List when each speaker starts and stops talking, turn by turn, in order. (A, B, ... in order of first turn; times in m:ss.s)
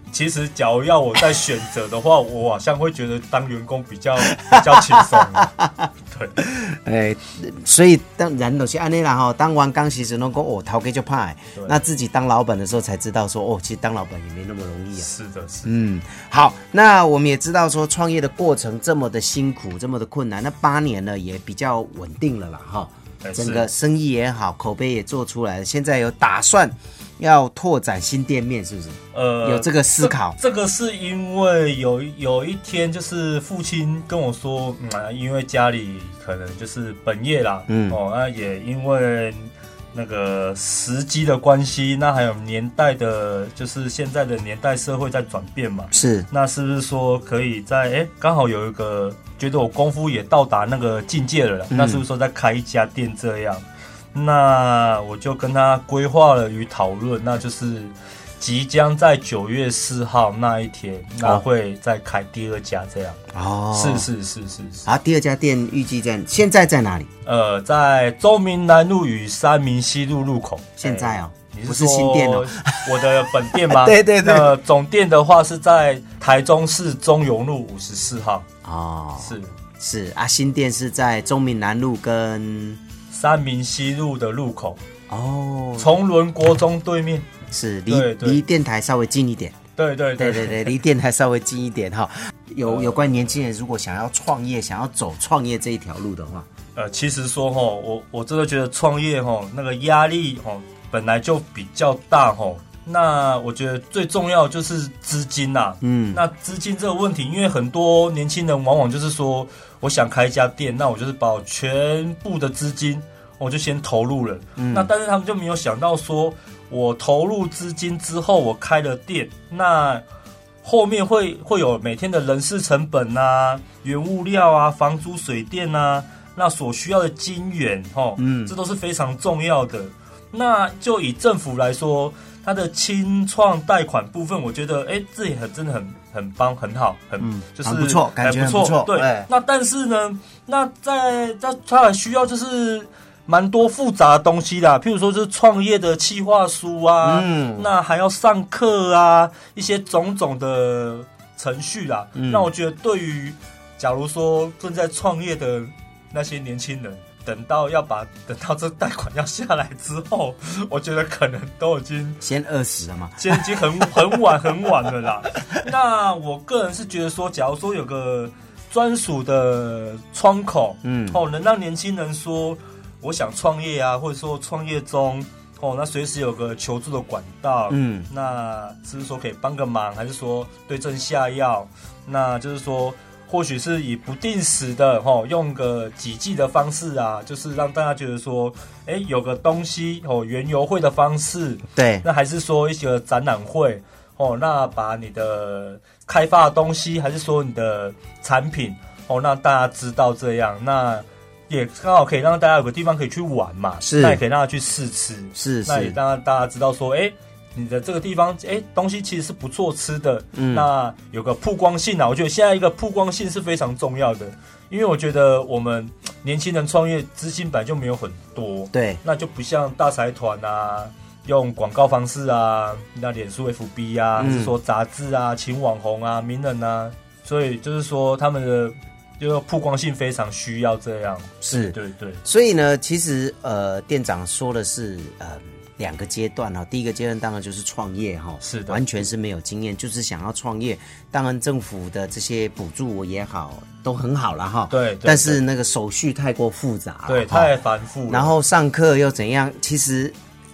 0:00.1-0:06.4 A
0:04.3-0:05.8 B
0:06.4-0:15.1 B
0:15.0-0:15.7 A
0:15.6-0:30.4 B
0:23.2-0:23.7 A
0:29.1-1:03.2 A
0:37.7-0:38.0 B
0:45.9-0:46.3 B
0:51.7-0:52.0 B
1:03.3-1:04.1 B
1:03.7-1:04.9 A
1:04.8-1:07.1 B
1:07.2-1:18.4 A
1:10.8-1:12.6 B
1:13.5-1:14.6 B
1:18.6-1:22.8 B
1:19.2-1:19.6 A
1:23.1-1:24.8 A
1:25.1-1:25.9 B
1:25.8-1:27.3 A
1:27.5-1:29.6 B
1:27.9-1:28.4 A
1:29.8-1:30.8 A
1:30.2-1:36.5 B
1:32.6-1:33.3 A
1:36.7-2:00.0 A
1:45.8-1:46.2 B
1:54.6-1:54.9 B
2:00.6-2:42.2 A
2:08.2-2:08.5 B
2:17.2-2:19.3 B
2:27.0-2:27.7 B
2:32.1-2:32.5 B
2:42.2-2:44.0 B
2:43.2-3:52.2 A
2:50.8-2:51.2 B
2:57.7-2:58.1 B
3:11.8-3:12.0 B
3:23.8-3:24.2 B
3:25.3-3:26.0 B
3:30.3-3:30.7 B
3:38.7-3:39.0 B
3:44.2-3:44.6 B
3:51.4-4:07.6 B
3:58.4-3:58.8 A
4:04.7-4:05.4 A
4:07.0-4:08.4 A
4:08.1-4:10.1 B